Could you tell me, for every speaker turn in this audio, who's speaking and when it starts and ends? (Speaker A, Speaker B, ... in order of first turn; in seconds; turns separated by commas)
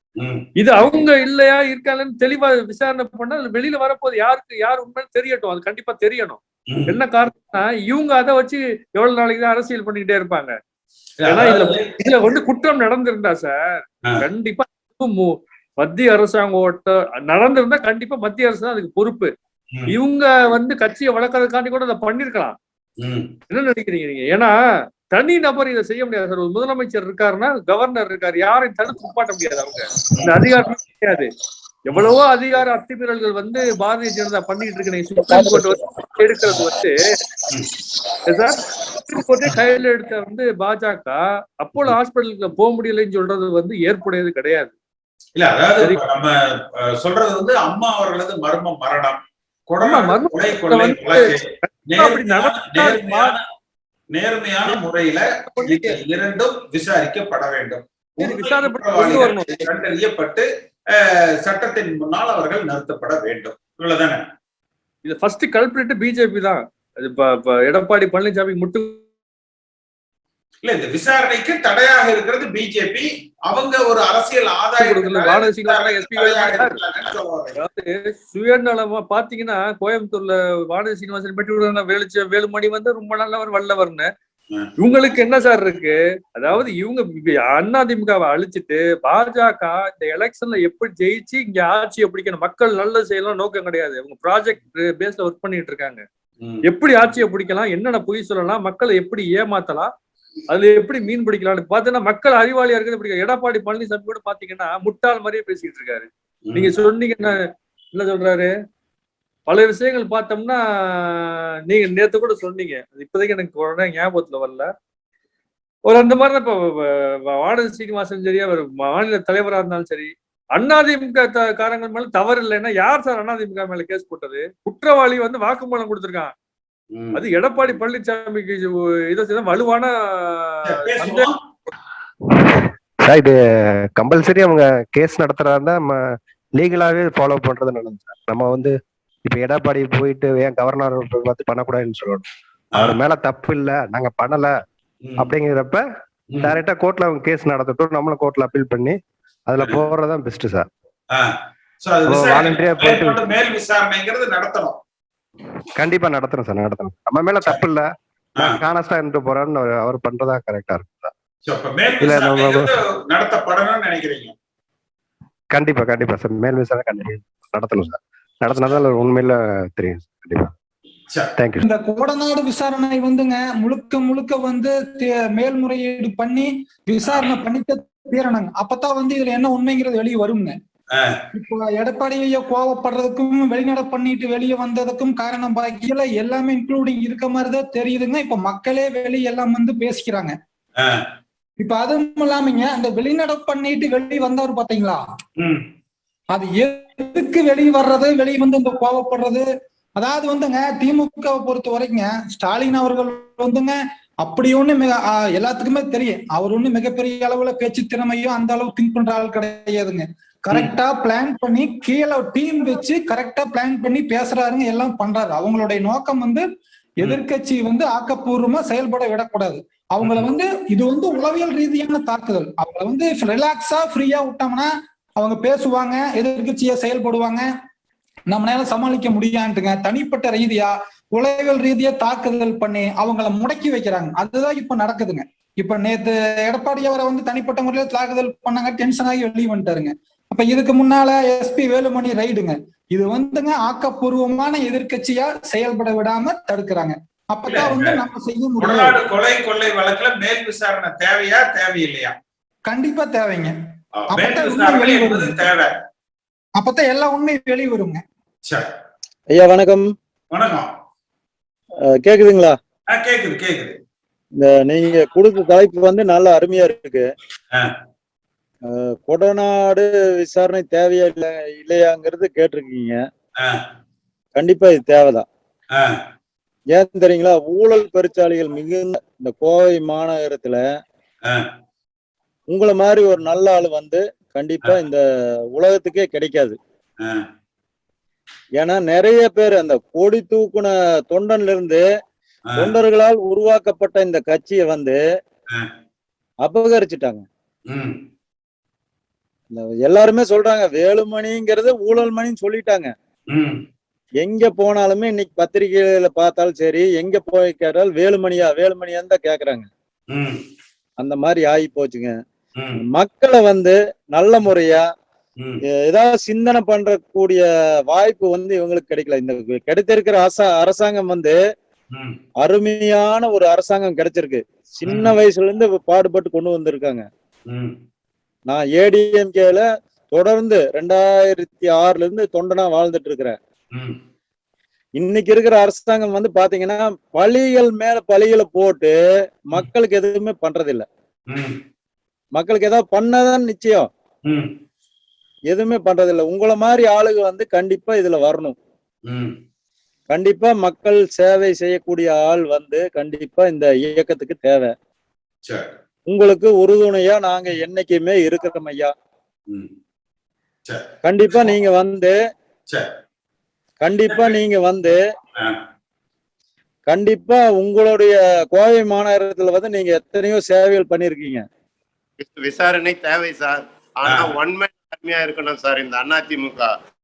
Speaker A: 0.2-0.5, Speaker B: 0.6-10.5, Speaker A: 11.2-11.8, Speaker B: 11.3-19.3, Speaker B: 19.9-22.6, Speaker A: 23.0-23.3, Speaker B: 23.5-24.5, Speaker B: 25.1-31.3, Speaker B: 31.9-37.0, Speaker B: 38.3-44.7, Speaker A: 45.4-46.3, Speaker A: 46.8-53.4, Speaker B: 49.8-53.4, Speaker A: 54.1-60.5, Speaker B: 55.6-56.0, Speaker B: 58.2-59.7, Speaker A: 61.5-64.2, Speaker B: 65.0-69.0, Speaker A: 70.6-77.6, Speaker B: 74.8-76.8, Speaker B: 77.6-84.1, Speaker B: 84.8-96.0, Speaker B: 96.7-99.9, Speaker B: 100.5-107.4, Speaker A: 106.5-106.7, Speaker B: 108.0-108.5, Speaker B: 109.5-114.7, Speaker B: 115.9-126.3, Speaker A: 126.9-127.2, Speaker B: 127.1-131.3, Speaker A: 130.7-131.3, Speaker C: 132.4-133.4, Speaker C: 134.0-136.0, Speaker C: 136.6-138.7, Speaker C: 139.3-144.5, Speaker A: 145.0-145.3, Speaker C: 145.2-145.8, Speaker C: 146.4-149.0, Speaker C: 149.5-150.7, Speaker A: 151.8-154.8, Speaker C: 152.1-153.2, Speaker C: 155.8-157.9, Speaker C: 158.4-161.1, Speaker A: 161.5-164.3, Speaker C: 162.0-162.7, Speaker C: 165.5-170.5, Speaker C: 171.4-171.6, Speaker D: 171.6-180.6, Speaker D: 181.3-190.4, Speaker D: 191.6-195.0, Speaker D: 196.3-216.5, Speaker D: 217.0-227.5, Speaker D: 228.3-249.0, Speaker A: 247.5-248.0, Speaker A: 248.6-252.1, Speaker D: 252.7-253.5, Speaker A: 254.0-255.7, Speaker D: 254.1-255.5, Speaker D: 256.6-258.0, Speaker E: 259.3-259.9, Speaker A: 260.3-260.7, Speaker E: 261.9-262.6, Speaker A: 262.9-263.8, Speaker E: 264.4-267.0, Speaker E: 268.7-273.0, Speaker E: 274.4-275.3, Speaker E: 276.7-280.6, Speaker E: 282.5-285.0, Speaker E: 285.6-286.6, Speaker E: 288.6-291.8, Speaker E: 292.6-295.0, Speaker E: 296.4-297.2, Speaker A: 297.7-298.0, Speaker E: 299.5-302.9, Speaker A: 303.3-303.6, Speaker E: 304.2-309.7, Speaker A: 310.1-310.4, Speaker E: 311.0-312.1, Speaker E: 312.9-314.8, Speaker E: 315.9-321.4, Speaker E: 322.4-327.1, Speaker A: 324.8-325.1, Speaker A: 327.5-327.8, Speaker E: 328.5-333.4, Speaker E: 335.0-338.9, Speaker E: 339.5-340.9, Speaker A: 341.3-341.6, Speaker E: 342.4-343.9, Speaker A: 344.3-344.5, Speaker E: 345.5-348.6, Speaker A: 349.1-349.4, Speaker E: 350.1-354.7, Speaker E: 356.1-358.9, Speaker E: 361.0-362.1, Speaker E: 363.8-365.0, Speaker A: 364.1-364.4, Speaker E: 366.9-371.4, Speaker F: 372.2-376.7